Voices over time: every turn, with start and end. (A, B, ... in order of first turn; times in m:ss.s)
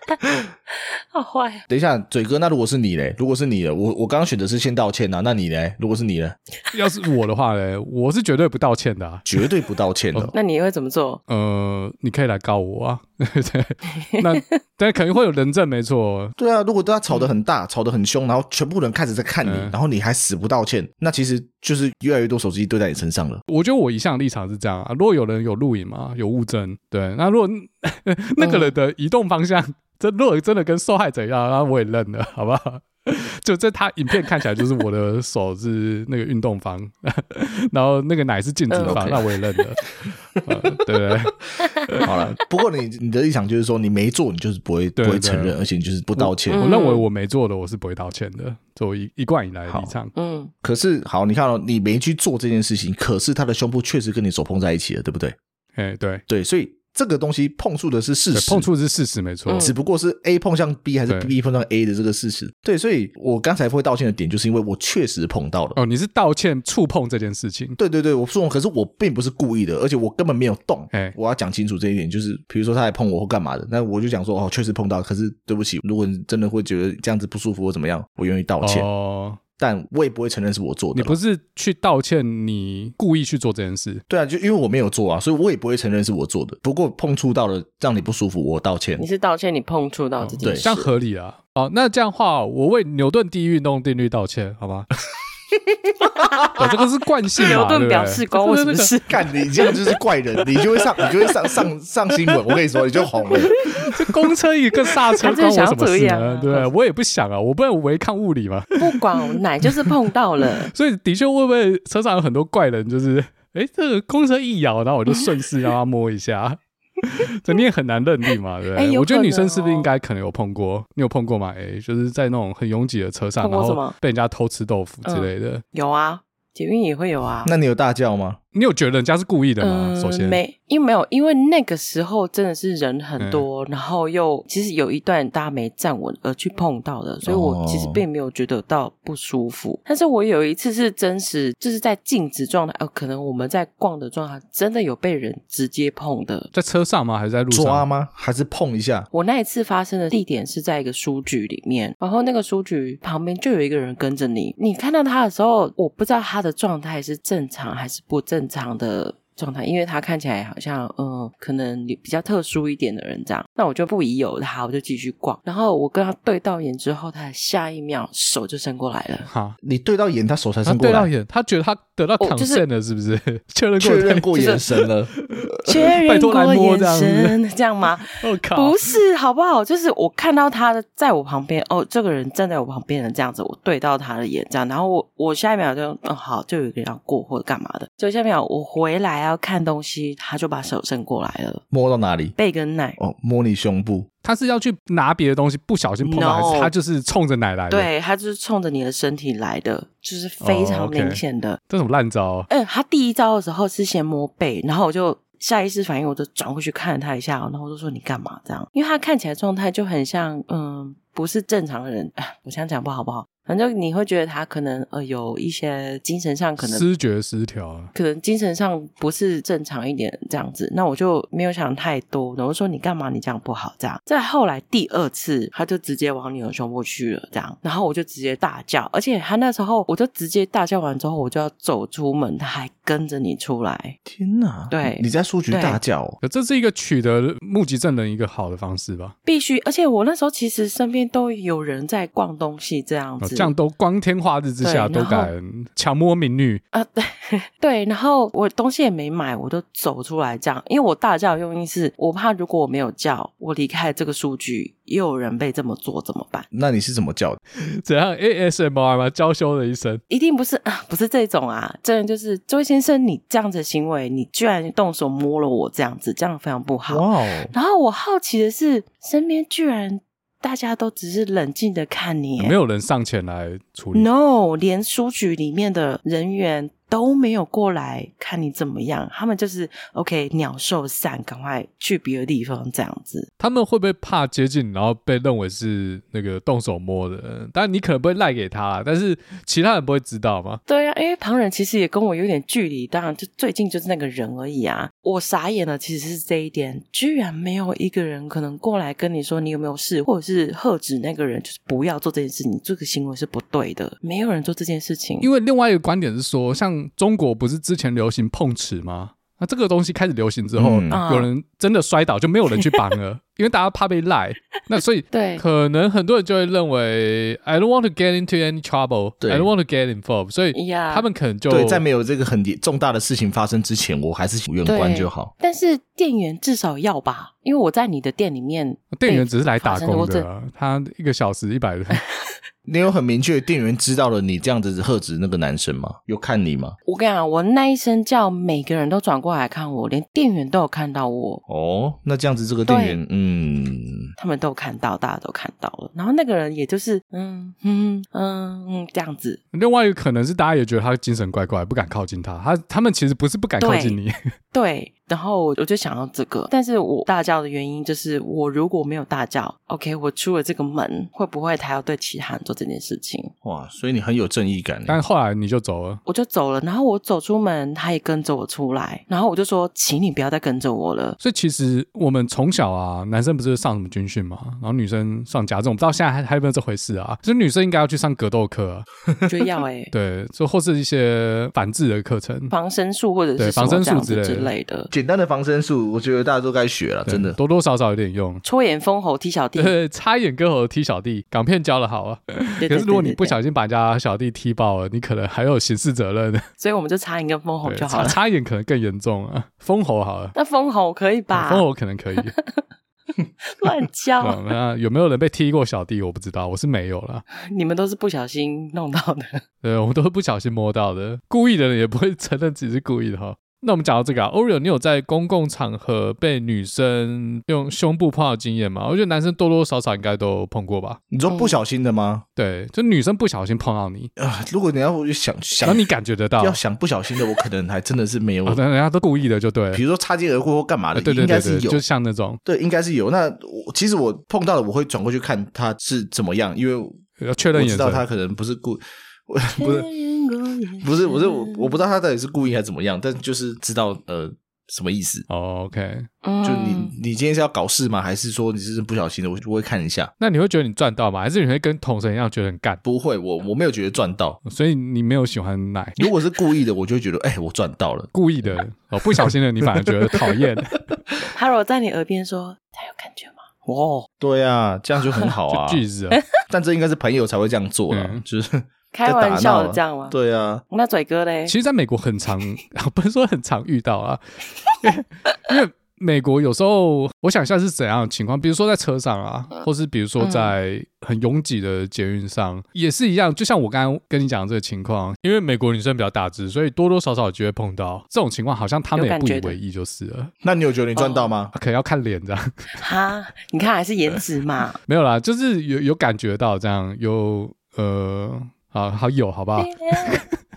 0:01.1-0:01.6 A
0:01.7-0:06.4 B
0:06.7-0:09.2 C
0:09.2-0:10.4 B
0:10.3-0:11.2 A
0:11.3-0:16.4 C
0:14.1-0:14.4 A
0:16.4-0:23.4 B
0:19.4-0:19.8 C
0:23.5-0:39.8 C
0:28.4-0:28.8 A
0:38.7-0:39.1 A
0:38.8-0:39.3 B
0:40.4-0:42.1 C
0:42.0-0:46.6 B
0:45.0-0:45.6 C
0:46.2-0:50.1 C
0:46.5-0:47.0 A
0:49.7-0:49.9 B
0:50.1-0:50.5 A
0:50.6-0:55.4 B
0:55.8-0:56.2 C
0:56.3-0:58.7 B
0:58.3-0:59.7 C
0:59.5-0:59.8 A
0:59.6-1:05.8 B
1:05.8-1:07.8 C
1:07.8-1:18.9 B
1:10.9-1:11.2 C
1:18.6-1:19.4 C
1:19.6-1:21.2 B
1:20.9-1:24.0 C
1:24.1-1:29.0 B
1:29.0-1:30.9 A
1:30.2-1:34.9 C
1:30.4-1:30.7 B
1:36.2-1:36.7 A
1:36.6-1:38.9 C
1:37.4-1:40.0 A
1:39.1-1:43.6 B
1:43.8-1:49.0 C
1:45.2-1:46.7 A
1:48.8-1:50.7 A
1:50.7-2:05.6 C
1:58.8-1:59.9 A
2:03.4-2:03.9 A
2:05.1-2:07.5 A
2:07.4-2:08.4 B
2:08.5-2:10.4 C
2:09.6-2:26.5 A
2:13.2-2:13.5 C
2:17.3-2:18.0 B
2:26.5-2:27.9 C
2:27.5-2:29.1 B
2:29.1-2:49.3 A
2:49.3-2:49.6 C
2:49.6-2:51.1 B
2:50.6-2:57.4 C
2:52.2-2:52.6 A
2:53.8-2:55.1 B
2:54.3-2:54.6 A
2:55.6-3:11.6 A
2:58.1-2:58.9 C
3:11.7-3:12.4 B
3:12.4-3:13.0 A
3:13.0-3:14.1 B
3:14.2-3:17.9 C
3:16.0-3:16.7 A
3:17.7-3:21.6 A
3:20.4-3:22.5 C
3:22.5-3:36.9 A
3:36.6-3:37.9 C
3:38.0-3:54.0 A
3:54.1-3:56.2 B
3:54.7-3:55.8 A
3:56.2-3:59.1 C
3:59.3-4:03.5 A
4:03.2-4:06.6 C
4:04.6-4:05.3 A
4:06.7-4:16.5 A
4:16.5-4:17.4 B
4:17.8-4:20.0 C
4:20.1-4:32.6 A
4:26.9-4:27.5 B
4:32.4-4:34.1 C
4:33.9-4:43.3 A
4:43.4-4:50.6 C
4:50.7-5:05.3 A
5:05.2-5:21.8 C
5:10.6-5:11.0 B
5:10.9-5:11.3 A
5:15.1-5:15.4 A
5:19.2-5:19.5 B
5:20.5-5:21.1 A
5:21.5-5:25.3 B
5:24.6-5:30.3 A
5:28.9-5:32.0 C
5:32.7-5:36.8 B
5:36.9-5:41.4 A
5:41.5-5:44.1 B
5:42.6-5:43.0 A
5:44.2-5:49.4 A
5:49.5-5:54.1 C
5:53.6-5:54.0 A
5:54.5-6:03.3 A
6:03.4-6:05.0 B
6:04.9-6:06.0 C
6:06.1-6:11.2 A
6:11.2-6:18.9 C
6:19.2-6:19.9 A
6:19.9-6:22.5 C
6:22.5-6:24.9 A
6:23.4-6:24.5 C
6:24.9-6:27.4 B
6:27.1-6:28.4 C
6:28.4-6:29.8 A
6:29.6-6:36.5 C
6:32.6-6:33.4 A
6:36.6-6:38.2 A
6:37.6-6:40.4 C
6:40.4-6:41.6 A
6:41.3-6:42.3 C
6:42.2-6:42.6 A
6:43.5-6:44.4 A
6:44.2-6:47.2 C
6:47.4-6:49.4 A
6:49.6-7:01.0 C
7:01.1-7:02.2 B
7:01.3-7:01.6 A
7:02.4-7:04.1 C
7:04.2-7:05.9 B
7:05.6-7:06.6 C
7:06.4-7:08.6 B
7:08.4-7:09.8 C
7:09.7-7:11.8 B
7:10.9-7:12.4 C
7:12.4-7:17.0 B
7:17.2-7:18.0 C
7:17.5-7:19.9 B
7:19.6-7:21.7 A
7:20.8-7:25.2 B
7:25.3-7:26.1 C
7:26.2-7:26.9 A
7:26.4-7:30.1 B
7:30.2-7:32.8 C
7:32.8-7:34.4 B
7:34.5-7:36.0 C
7:36.0-7:38.5 B
7:38.1-7:40.8 C
7:39.2-7:39.9 B
7:41.3-7:44.1 A
7:44.2-7:45.8 B
7:45.5-7:46.2 C
7:46.5-7:50.6 B
7:47.9-7:48.2 C
7:48.9-7:50.2 A
7:50.7-7:51.5 A
7:51.5-7:54.2 C
7:54.8-8:10.3 C
8:00.2-8:00.5 A
8:08.9-8:09.6 A
8:10.4-8:11.5 B
8:10.9-8:11.3 A
8:11.5-8:12.8 C
8:12.8-8:14.8 A
8:14.9-8:20.3 C
8:19.6-8:20.2 A